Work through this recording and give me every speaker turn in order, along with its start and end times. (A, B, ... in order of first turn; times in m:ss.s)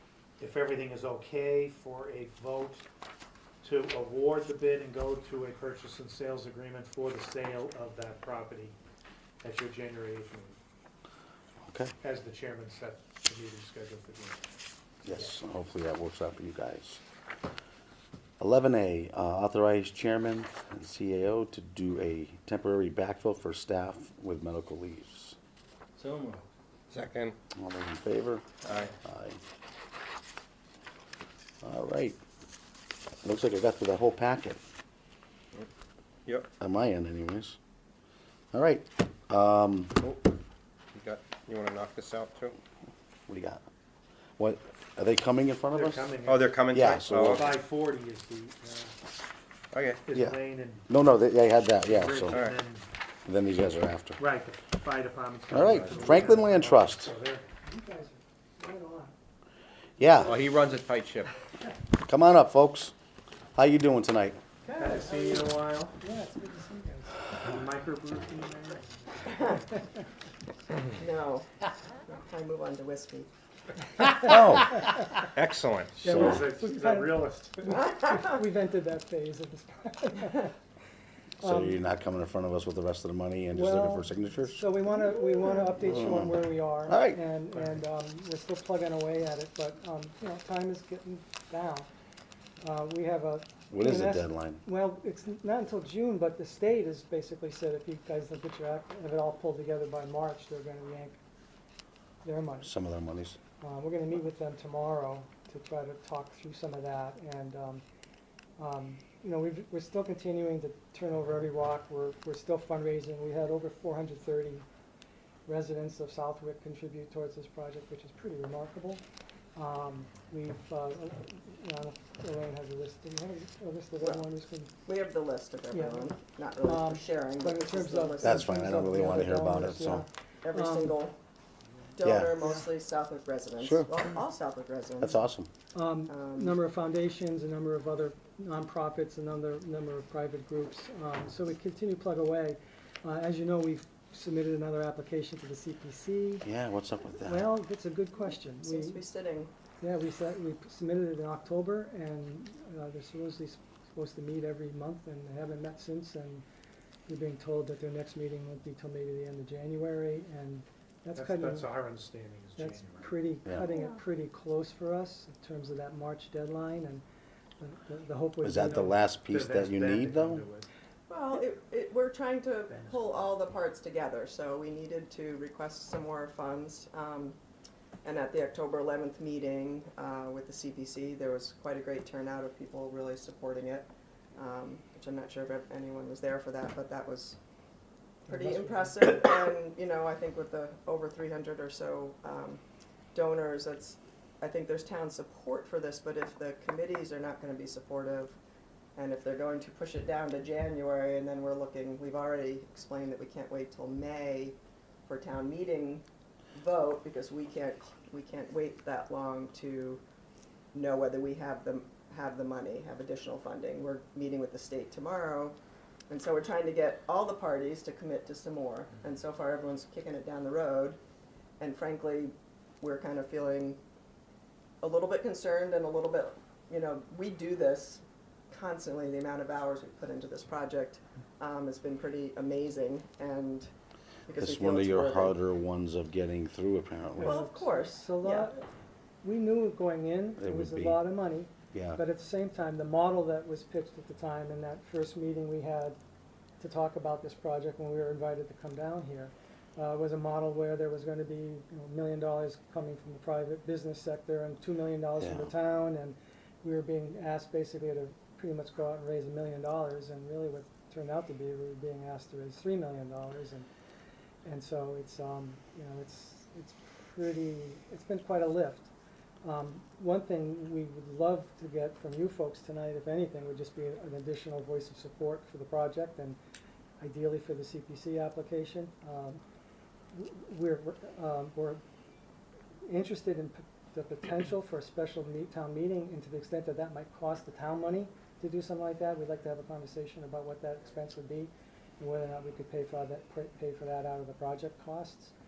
0:00.4-0:02.8 A
0:03.6-0:08.7 A
0:09.4-0:10.6 A
0:11.6-0:11.9 B
0:12.0-0:14.5 A
0:15.0-0:17.0 B
0:18.4-0:25.4 B
0:26.0-0:27.3 C
0:27.5-0:28.5 B
0:28.6-0:28.9 C
0:29.0-0:29.4 B
0:31.6-0:32.2 B
0:33.2-0:34.6 B
0:36.6-0:37.6 B
0:38.5-0:39.9 B
0:40.9-0:42.6 C
0:43.3-0:43.6 B
0:44.4-0:46.0 B
0:45.7-0:46.6 A
0:46.2-0:47.4 C
0:46.7-0:47.5 B
0:47.2-0:48.9 A
0:49.7-0:50.0 C
0:50.0-0:51.0 A
0:50.1-0:52.4 B
0:51.8-0:52.9 A
0:52.3-0:52.6 C
0:53.2-0:54.2 B
0:54.2-0:57.5 A
0:55.5-0:57.1 B
0:55.7-0:56.3 C
0:57.6-0:59.1 D
1:00.0-1:00.4 B
1:00.2-1:01.3 C
1:02.0-1:02.9 B
1:03.6-1:04.4 B
1:04.6-1:07.3 D
1:04.8-1:06.0 A
1:07.3-1:09.6 A
1:11.0-1:11.4 E
1:12.1-1:13.3 E
1:14.1-1:14.9 B
1:15.3-1:16.0 C
1:16.0-1:17.8 A
1:16.0-1:20.5 D
1:21.4-1:24.7 B
1:21.4-1:21.8 D
1:23.5-1:31.9 D
1:25.8-1:27.2 B
1:32.6-1:41.2 D
1:33.7-1:34.6 B
1:42.2-1:42.7 D
1:42.6-1:43.4 B
1:43.6-1:47.8 D
1:48.6-1:54.6 D
1:55.4-1:59.0 D
1:59.5-2:04.7 D
2:04.0-2:04.2 E
2:04.8-2:08.5 E
2:05.7-2:11.0 D
2:08.2-2:10.0 B
2:10.4-2:11.2 E
2:12.0-2:15.2 E
2:12.0-2:12.4 B
2:13.6-2:14.0 B
2:15.0-2:15.5 B
2:15.7-2:26.4 D
2:16.1-2:16.6 E
2:26.4-2:27.5 B
2:27.1-2:29.0 D
2:28.2-2:29.5 E
2:29.8-2:36.4 D
2:37.1-2:41.8 D
2:41.2-2:43.2 A
2:42.6-2:47.0 D
2:47.6-2:49.0 D
2:48.4-2:50.4 B
2:49.3-2:50.7 A
2:51.1-2:57.4 E
2:52.7-2:53.0 A
2:58.0-3:07.4 E
3:08.2-3:12.6 E
3:08.3-3:08.9 D
3:13.1-3:18.4 E
3:19.0-3:24.6 E
3:25.1-3:30.0 E
3:30.7-3:35.6 E
3:36.1-3:41.0 E
3:41.6-3:43.8 E
3:44.8-3:53.7 E
3:54.3-3:55.4 E
3:54.4-3:57.4 B
3:57.2-3:58.6 D
3:57.2-3:58.5 E
3:59.2-4:06.0 D
4:00.4-4:01.0 B
4:01.7-4:02.0 B
4:06.6-4:23.7 D
4:15.2-4:15.5 B
4:24.4-4:28.9 D
4:29.4-4:36.4 D
4:37.0-4:39.4 D
4:40.1-4:41.8 D
4:42.8-4:55.3 D